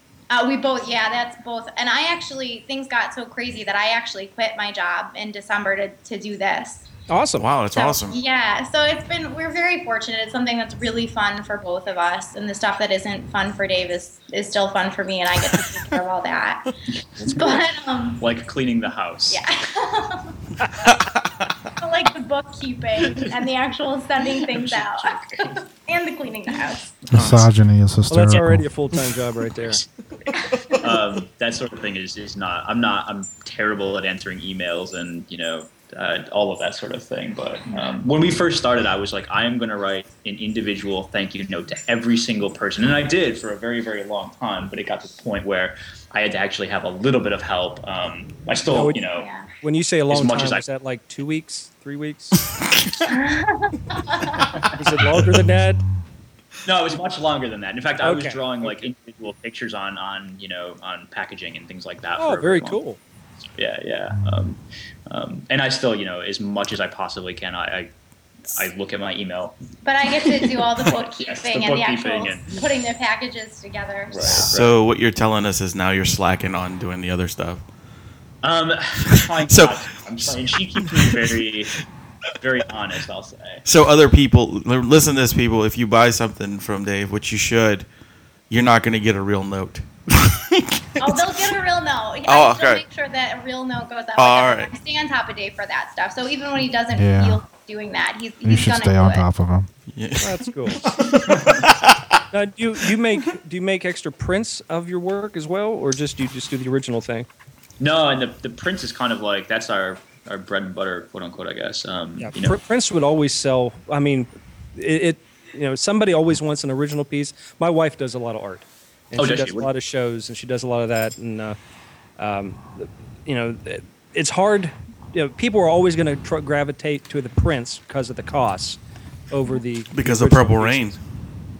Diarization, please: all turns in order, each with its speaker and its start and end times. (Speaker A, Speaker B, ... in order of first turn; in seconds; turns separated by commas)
Speaker A: 0.3-6.9, Speaker B: 7.1-7.5, Speaker C: 7.4-8.2, Speaker A: 7.7-18.2, Speaker D: 17.2-17.6, Speaker D: 18.2-19.4, Speaker A: 19.3-20.3, Speaker C: 20.8-21.5, Speaker A: 21.8-27.0, Speaker D: 24.3-25.6, Speaker E: 27.1-28.7, Speaker D: 27.1-27.4, Speaker C: 27.1-27.4, Speaker B: 28.1-29.8, Speaker A: 30.4-30.9, Speaker D: 30.8-49.3, Speaker A: 37.7-38.0, Speaker B: 48.7-49.0, Speaker A: 49.2-49.5, Speaker B: 49.6-52.4, Speaker D: 50.1-50.6, Speaker A: 53.1-54.5, Speaker B: 54.7-55.8, Speaker E: 55.3-56.0, Speaker D: 56.6-62.8, Speaker B: 58.0-58.9, Speaker B: 62.2-63.0, Speaker D: 63.4-67.9, Speaker E: 64.1-64.5, Speaker D: 68.5-69.6, Speaker A: 69.8-74.5, Speaker D: 70.2-72.5, Speaker D: 74.1-74.8, Speaker C: 74.4-77.6, Speaker D: 78.4-81.7, Speaker C: 79.5-80.3, Speaker C: 80.8-81.4, Speaker D: 82.4-83.6, Speaker C: 83.7-87.8, Speaker C: 88.5-91.2, Speaker A: 91.0-99.2, Speaker C: 92.2-92.8, Speaker C: 94.2-94.7, Speaker E: 96.9-97.4, Speaker E: 98.4-99.7, Speaker C: 99.9-102.2, Speaker B: 100.2-100.8, Speaker D: 101.1-101.7, Speaker B: 102.3-107.3, Speaker D: 107.8-112.6, Speaker B: 112.2-121.6, Speaker D: 119.2-119.7, Speaker B: 122.2-128.8, Speaker B: 129.3-131.0, Speaker C: 129.9-131.0